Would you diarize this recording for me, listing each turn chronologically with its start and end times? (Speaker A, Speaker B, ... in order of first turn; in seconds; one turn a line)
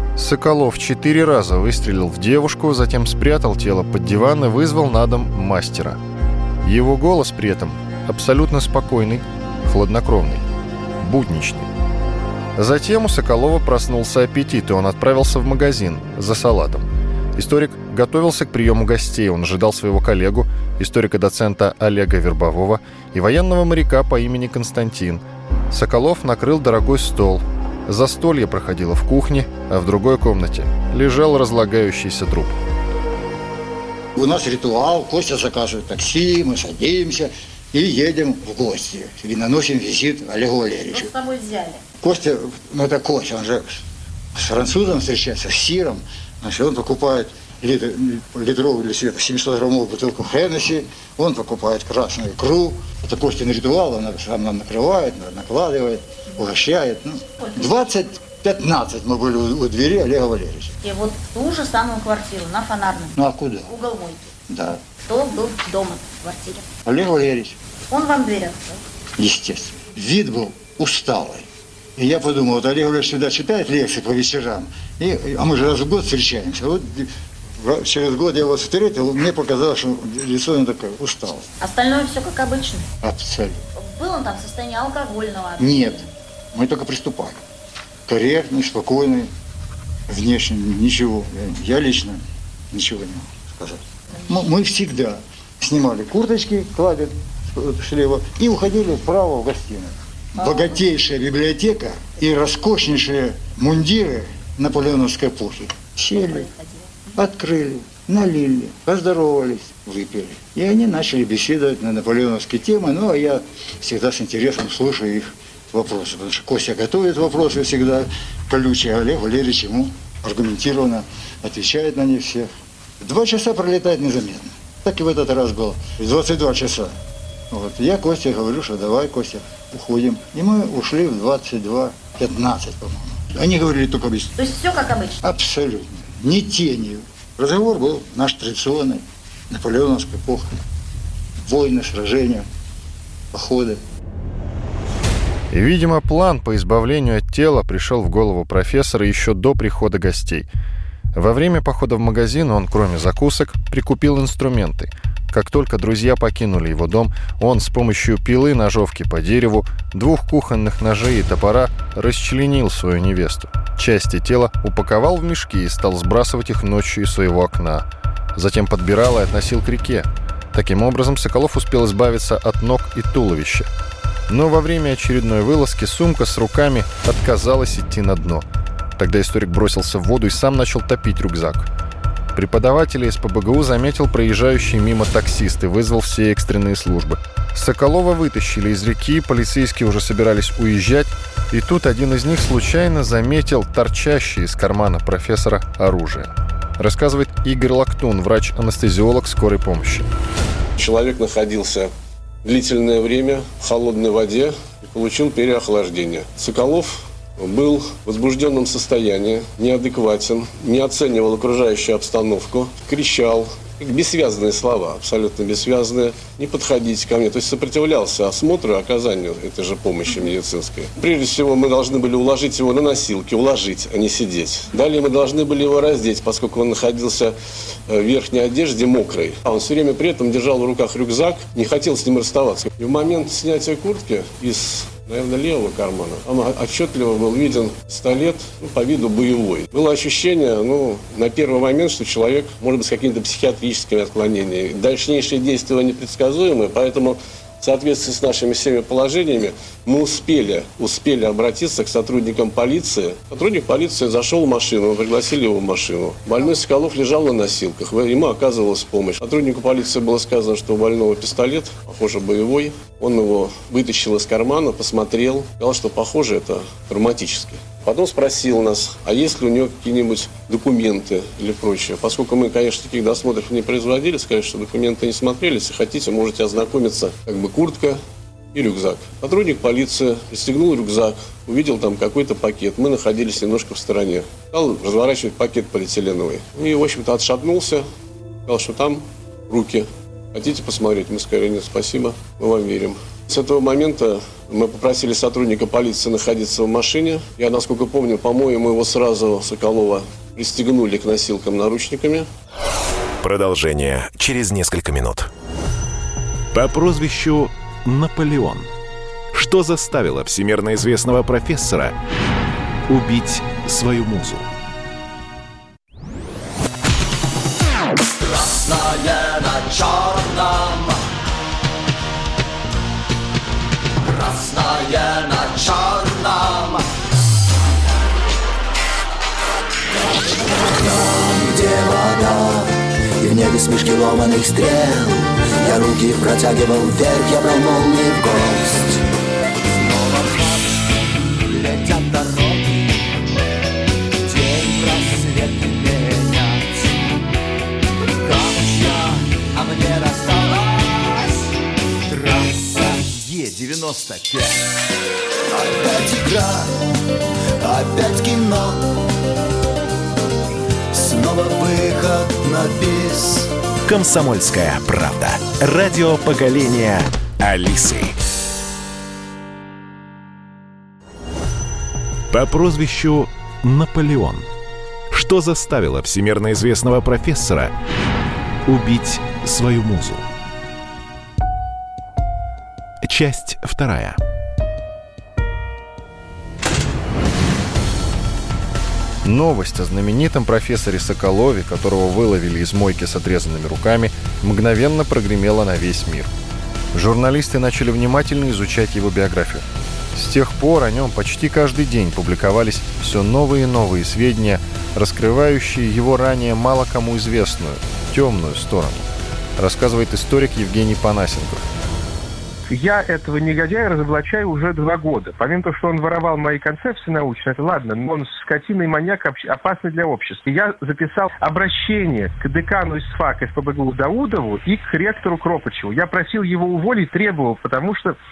Speaker A: 0.2-6.0
Speaker A: 6.6-10.4
Speaker A: 11.0-11.7
Speaker A: 12.6-32.6
Speaker B: 34.1-41.1
Speaker C: 40.9-41.8
Speaker B: 42.0-60.7
Speaker C: 60.8-64.3
Speaker B: 63.1-63.7
Speaker B: 64.5-64.8
Speaker C: 65.1-66.6
Speaker B: 66.8-67.6
Speaker C: 67.9-68.8
Speaker B: 69.2-81.5
Speaker C: 81.6-82.9
Speaker B: 83.0-83.7
Speaker C: 83.8-86.0
Speaker B: 85.6-87.4
Speaker B: 88.1-89.3
Speaker B: 90.1-106.5
Speaker B: 107.2-122.5
Speaker B: 123.0-126.9
Speaker B: 127.5-134.3
Speaker C: 134.4-135.2
Speaker B: 135.2-140.6
Speaker B: 141.4-142.5
Speaker B: 143.3-143.8
Speaker A: 145.5-150.5
Speaker A: 151.1-173.7
Speaker A: 174.3-178.5
Speaker A: 179.0-181.7
Speaker A: 182.3-200.1
Speaker D: 200.8-201.9
Speaker D: 202.4-227.3
Speaker D: 227.9-278.0
Speaker D: 278.5-287.9
Speaker D: 288.5-302.3
Speaker E: 303.2-305.3
Speaker E: 306.5-308.7
Speaker E: 309.3-312.0
Speaker E: 312.9-314.5
Speaker F: 318.2-321.0
Speaker F: 324.0-326.9
Speaker F: 330.6-339.0
Speaker F: 339.7-343.0
Speaker F: 344.2-347.1
Speaker F: 348.2-351.4
Speaker F: 352.1-354.7
Speaker F: 355.5-356.8
Speaker F: 357.6-359.0
Speaker F: 360.9-363.5
Speaker E: 363.9-368.2
Speaker E: 372.3-374.5
Speaker E: 375.1-377.7
Speaker E: 378.7-380.3
Speaker E: 383.0-384.2
Speaker A: 389.2-396.3
Speaker A: 396.9-411.6
Speaker G: 412.7-428.2